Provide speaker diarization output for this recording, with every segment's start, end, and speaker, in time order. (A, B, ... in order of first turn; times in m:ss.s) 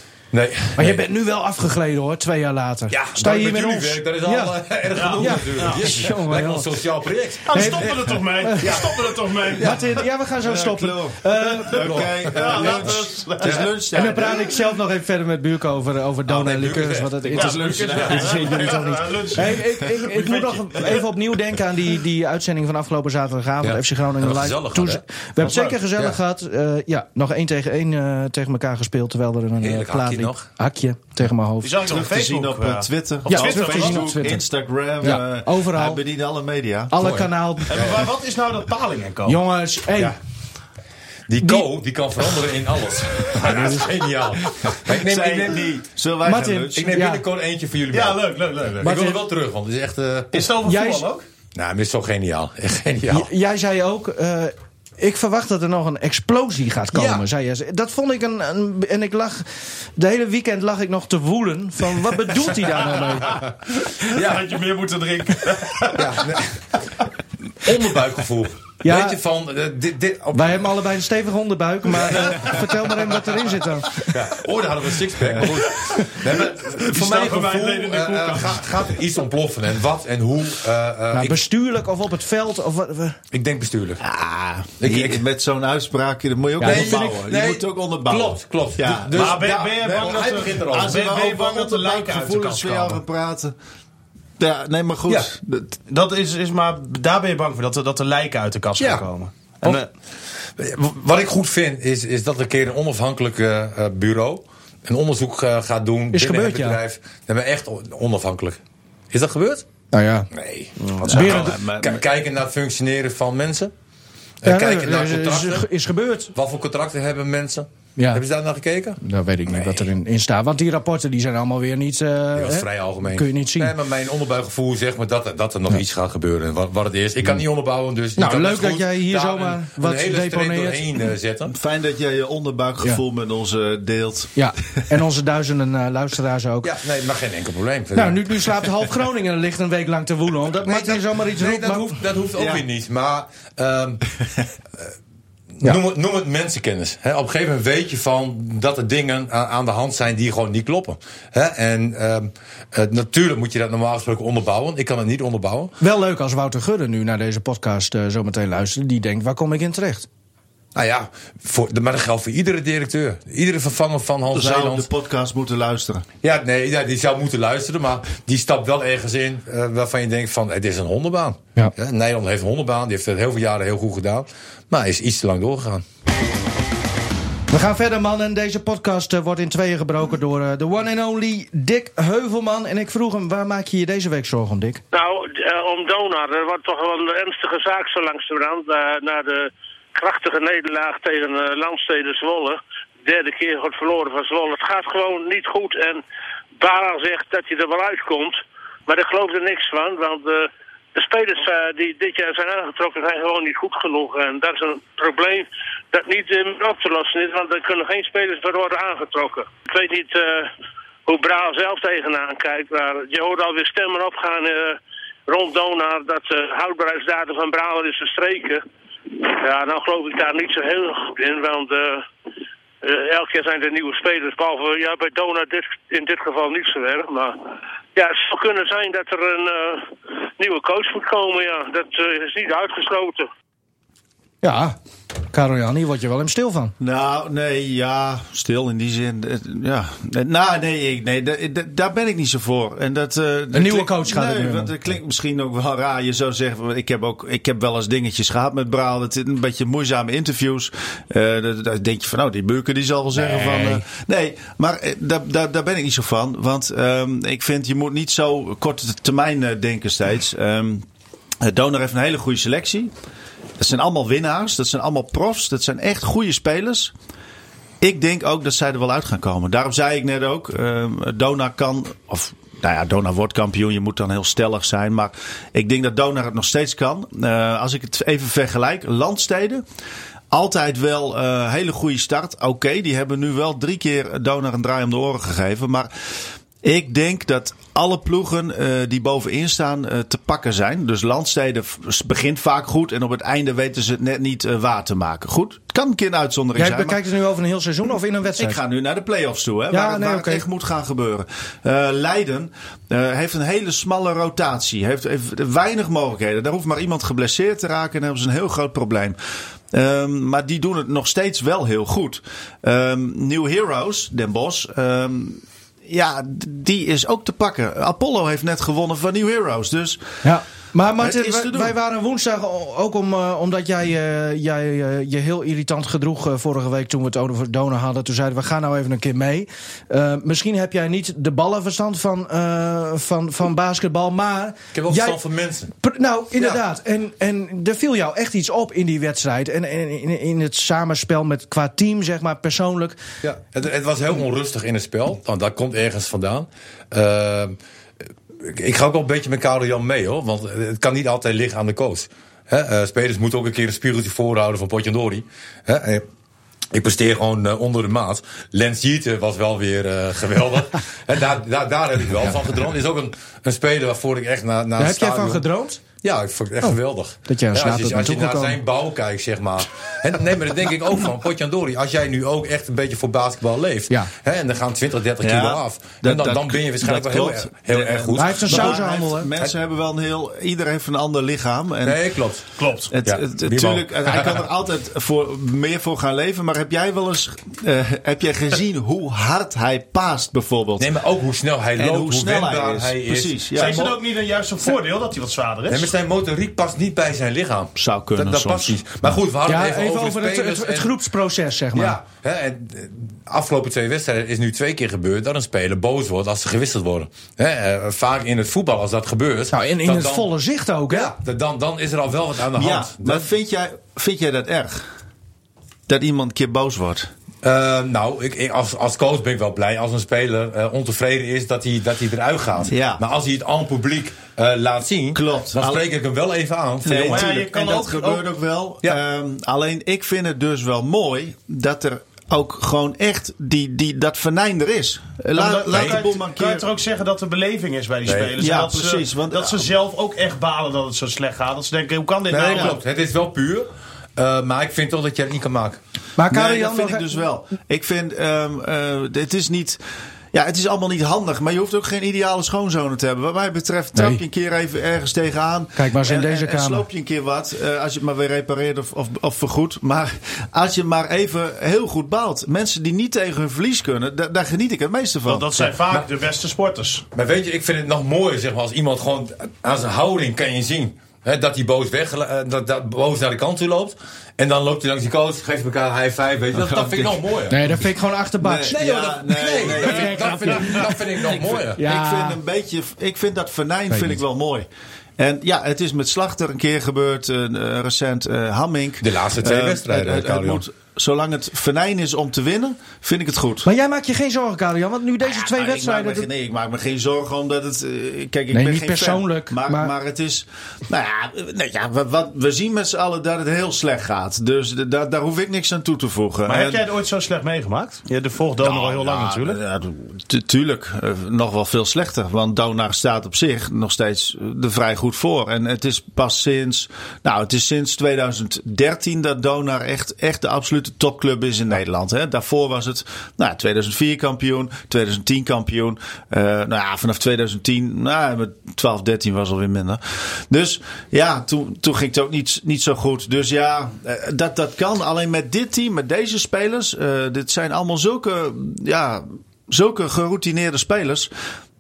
0:00.3-0:01.0 A
0:00.8-0:04.6 B
0:02.9-0:09.8 A
0:05.0-0:05.9 C
0:05.2-0:06.7 B
0:07.5-0:09.8 C
0:07.5-0:08.8 B
0:09.6-0:12.1 B
0:10.4-0:14.6 D
0:11.8-0:13.7 A
0:12.4-0:14.1 C
0:13.9-0:31.8 B
0:16.3-0:18.7 A
0:17.4-0:21.0 C
0:17.4-0:18.6 D
0:23.6-0:25.0 A
0:25.4-0:25.8 C
0:29.6-0:30.5 A
0:31.6-0:34.1 C
0:31.8-0:37.1 D
0:33.3-0:34.5 B
0:35.0-0:36.0 B
0:36.9-0:37.8 B
0:37.0-0:38.1 A
0:37.7-0:39.4 C
0:39.3-0:40.2 B
0:41.3-0:45.7 A
0:43.5-0:43.8 B
0:44.6-0:46.9 D
0:46.2-0:47.2 B
0:46.8-0:50.5 A
0:47.9-0:49.0 C
0:48.8-0:49.2 B
0:50.3-0:51.3 C
0:50.6-0:51.0 B
0:51.6-0:53.3 A
0:53.1-1:03.4 B
0:56.9-0:57.2 A
1:03.0-1:06.3 C
1:04.1-1:04.5 A
1:05.9-1:06.8 A
1:07.6-1:10.6 A
1:08.8-1:09.2 B
1:10.3-1:13.9 B
1:11.9-1:21.4 A
1:15.5-1:15.9 C
1:16.6-1:18.9 C
1:21.1-1:23.2 B
1:23.3-1:24.0 A
1:24.0-1:33.6 D
1:24.8-1:25.2 A
1:26.6-1:27.1 B
1:26.6-1:31.1 A
1:29.1-1:33.0 C
1:34.4-1:35.8 D
1:35.1-1:35.3 A
1:35.9-1:39.9 C
1:38.8-1:39.1 A
1:40.4-1:48.6 A
1:46.1-1:46.8 B
1:49.1-1:49.6 A
1:49.9-1:50.3 B
1:50.3-1:53.7 A
1:50.8-1:51.5 C
1:51.0-1:52.0 D
1:54.4-1:55.7 A
1:54.4-1:56.3 B
1:56.3-1:59.9 A
1:58.0-1:58.2 B
1:59.0-2:03.8 B
2:02.3-2:11.5 A
2:08.2-2:10.9 B
2:11.5-2:14.4 D
2:14.4-2:16.7 B
2:16.6-2:18.3 A
2:17.9-2:22.0 B
2:20.6-2:24.0 A
2:22.4-2:22.6 D
2:25.6-2:35.7 A
2:35.8-2:40.1 B
2:40.8-2:44.9 A
2:44.3-2:46.1 D
2:46.2-2:55.8 A
2:57.5-3:04.8 B
3:04.9-3:16.0 E
3:16.6-3:30.5 E
3:31.1-3:38.6 E
3:39.2-3:42.1 E
3:42.8-3:47.4 E
3:48.0-3:53.3 E
3:54.4-3:54.8 B
3:55.3-3:56.8 B
3:56.8-4:20.8 D
4:03.5-4:04.7 B
4:13.2-4:13.8 B
4:21.4-4:22.9 D
4:23.6-4:26.9 D
4:27.8-4:39.6 D
4:40.3-4:45.9 D
4:46.6-4:57.0 D
4:56.6-4:58.6 B
4:58.4-5:09.2 D
4:59.7-5:00.5 B
5:09.7-5:20.0 D
5:20.2-5:35.2 B
5:21.0-5:21.7 D
5:34.7-5:35.7 A
5:35.7-5:43.0 B
5:43.2-5:47.6 A
5:48.4-5:56.1 A
5:56.7-6:05.4 A
6:04.8-6:05.8 B
6:06.0-6:18.8 A
6:07.3-6:08.6 B
6:15.2-6:22.1 D
6:18.2-6:19.3 B
6:21.8-6:22.5 A
6:22.6-6:22.9 C
6:22.9-6:30.9 D
6:23.0-6:24.5 A
6:30.8-6:33.5 A
6:31.8-6:34.0 D
6:33.5-6:35.9 C
6:35.7-6:40.9 A
6:37.8-6:38.8 D
6:39.5-6:42.0 B
6:41.7-6:50.3 A
6:49.5-6:51.1 B
6:50.9-6:53.3 A
6:52.5-6:54.9 D
6:55.9-6:57.1 D
6:57.4-7:07.3 A
7:02.7-7:03.0 D
7:05.1-7:05.8 D
7:06.9-7:16.7 D
7:07.1-7:08.3 C
7:15.3-7:22.8 C
7:15.7-7:16.0 A
7:18.0-7:18.4 A
7:18.4-7:19.7 D
7:22.3-7:25.8 A
7:22.5-7:22.8 D
7:26.2-7:27.2 B
7:26.3-7:29.8 D
7:30.3-7:45.6 D
7:34.0-7:34.2 B
7:35.8-7:36.9 B
7:45.3-7:47.0 C
7:47.1-7:57.7 A
7:56.6-7:57.2 D
7:57.5-7:58.9 B
7:58.4-8:00.9 D
7:58.7-8:01.8 A
7:59.7-8:01.0 B
8:01.4-8:04.7 D
8:01.8-8:02.4 B
8:03.9-8:04.2 B
8:05.2-8:13.7 D
8:09.0-8:10.6 A
8:13.6-8:16.3 B
8:15.2-8:26.8 D
8:18.5-8:19.9 B
8:26.5-8:29.6 C
8:28.6-9:01.3 D